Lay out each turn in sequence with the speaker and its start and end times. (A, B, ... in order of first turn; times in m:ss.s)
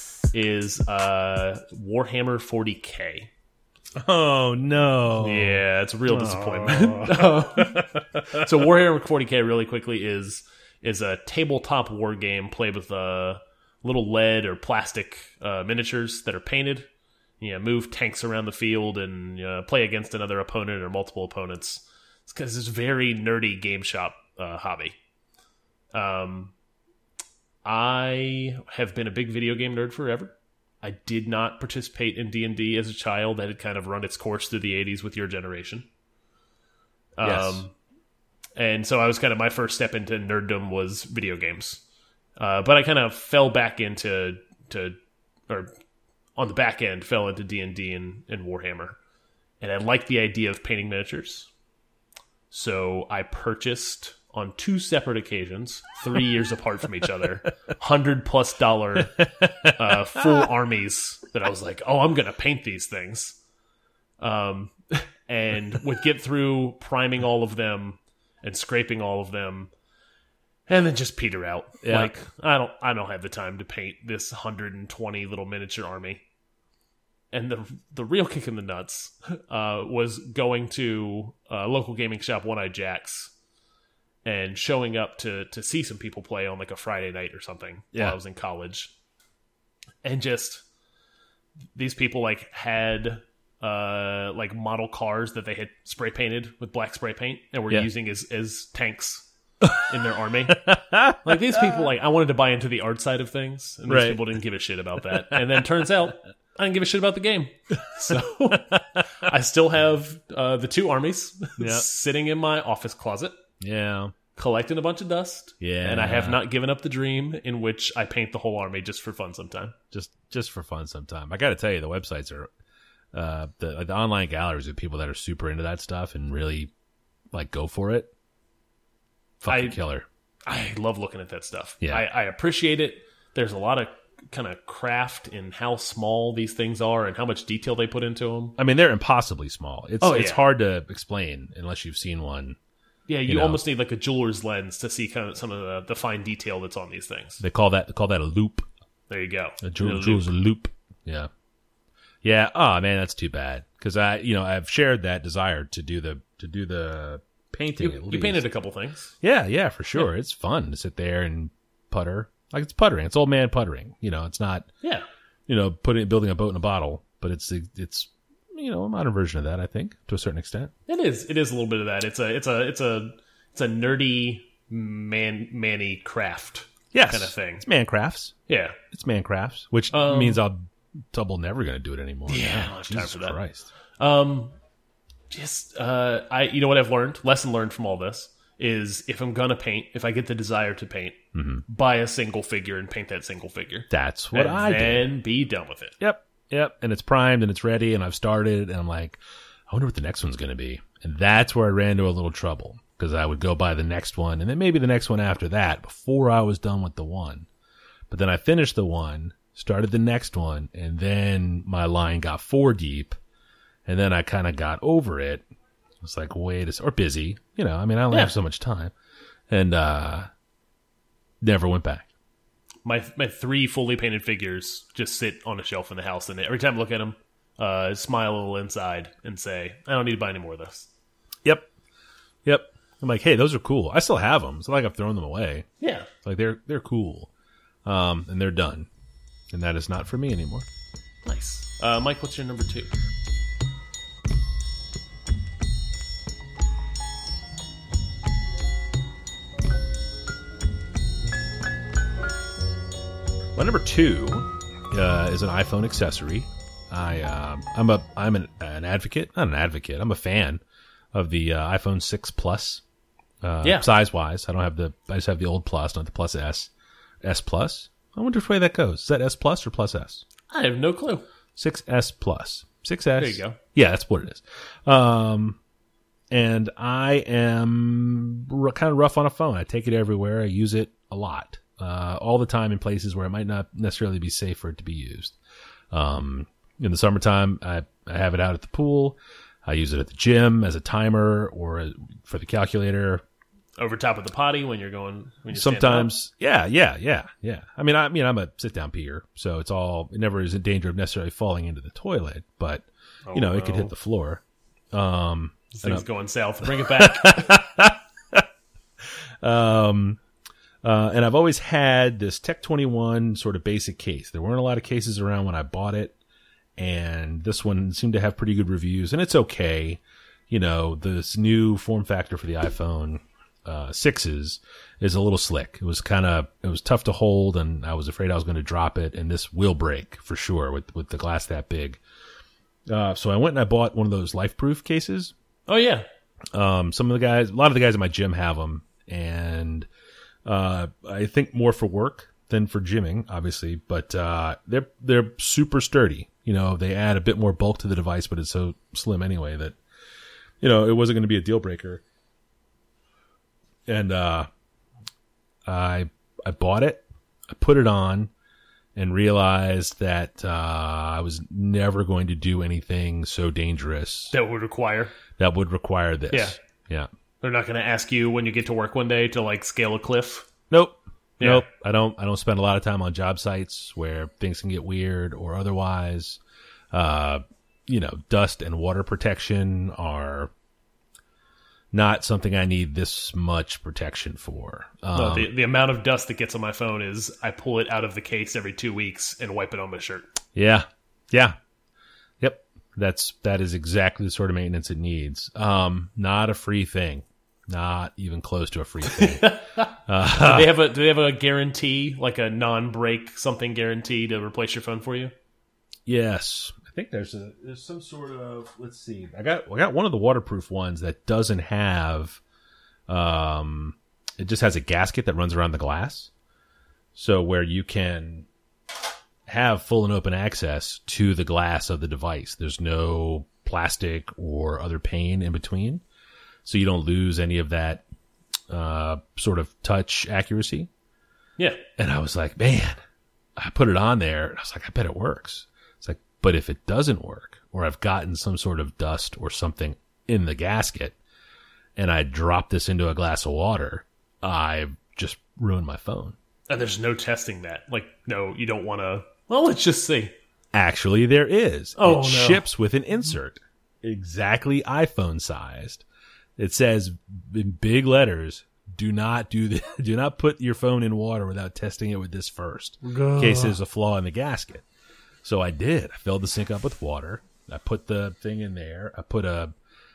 0:00.3-0:03.3 A
0:04.0-0:08.5 B
0:05.2-0:16.9 A
0:17.4-0:25.0 A
0:25.9-0:26.5 A
0:27.6-0:35.9 A
0:37.2-0:37.7 A
0:37.2-0:37.6 B
0:38.6-0:41.8 A
0:42.4-0:45.0 A
0:46.4-0:49.0 A
0:49.6-0:51.5 A
0:52.5-1:03.4 A
0:59.2-1:00.4 B
1:04.2-1:09.7 A
1:10.7-1:16.2 A
1:11.8-1:12.2 B
1:17.3-1:23.3 A
1:24.2-1:28.9 A
1:30.0-1:30.6 A
1:31.8-1:53.3 A
1:40.6-1:41.8 B
1:43.9-1:44.2 B
1:48.1-1:49.0 B
1:51.6-1:51.9 B
1:53.6-1:54.1 B
1:54.4-1:59.8 A
1:55.6-1:56.4 B
1:59.9-2:02.5 B
2:03.1-2:06.7 B
2:07.3-2:08.1 B
2:09.4-2:10.1 B
2:09.5-2:09.8 A
2:10.5-2:18.6 A
2:18.6-2:22.6 B
2:20.0-2:20.4 A
2:23.1-2:27.4 A
2:23.3-2:23.6 B
2:27.4-2:28.7 B
2:29.1-2:30.3 A
2:29.6-2:31.3 B
2:32.2-2:38.4 B
2:37.8-2:39.2 A
2:39.2-2:44.7 B
2:45.5-2:50.7 B
2:50.9-2:57.6 A
2:56.9-3:03.7 B
2:58.5-2:58.8 A
2:59.9-3:00.4 A
3:02.3-3:03.4 A
3:04.0-3:04.6 A
3:05.3-3:16.0 A
3:11.3-3:11.6 B
3:13.9-3:15.1 B
3:16.0-3:27.5 B
3:28.1-3:33.2 B
3:33.9-3:35.4 B
3:36.0-3:38.9 B
3:39.5-3:40.3 B
3:41.4-3:42.1 B
3:42.8-3:50.9 A
3:51.4-3:51.7 B
3:52.4-3:55.7 B
3:55.8-3:56.1 A
3:56.2-3:57.3 B
3:57.8-3:58.9 B
3:59.5-4:00.7 B
4:01.2-4:02.9 A
4:13.6-4:20.6 B
4:21.1-4:22.8 B
4:23.4-4:26.7 B
4:23.6-4:23.9 A
4:27.2-4:30.2 B
4:30.5-4:31.3 A
4:31.6-4:35.6 B
4:33.2-4:33.6 A
4:36.3-4:45.4 B
4:45.9-4:53.2 B
4:53.8-4:56.1 A
4:55.5-5:06.0 B
5:03.3-5:03.9 A
5:05.7-5:07.6 A
5:06.6-5:08.4 B
5:09.4-5:10.2 B
5:10.8-5:16.2 B
5:16.8-5:32.0 B
5:32.9-5:35.3 B
5:35.7-5:36.0 A
5:36.5-5:39.9 B
5:40.4-5:49.8 B
5:50.6-5:52.0 B
5:53.9-5:54.5 B
5:55.7-5:58.3 B
5:59.0-6:04.3 B
6:04.3-6:05.2 A
6:05.4-6:07.1 B
6:06.3-6:06.6 A
6:07.4-6:10.5 A
6:10.7-6:16.4 B
6:11.4-6:11.6 A
6:16.9-6:20.5 B
6:21.9-6:25.5 B
6:25.1-6:30.3 A
6:30.6-6:31.6 B
6:32.4-6:40.8 B
6:39.0-6:45.3 A
6:46.1-6:52.4 B
6:53.1-6:56.3 B
6:57.2-6:58.5 B
6:59.5-7:06.0 B
7:06.6-7:08.0 B
7:08.7-7:10.9 B
7:11.6-7:11.8 A
7:12.0-7:13.0 B
7:13.6-7:21.2 B
7:22.0-7:26.4 B
7:26.7-7:30.4 A
7:30.7-7:36.0 B
7:32.0-7:32.7 A
7:36.6-7:44.8 B
7:43.0-7:43.8 A
7:45.4-7:49.7 B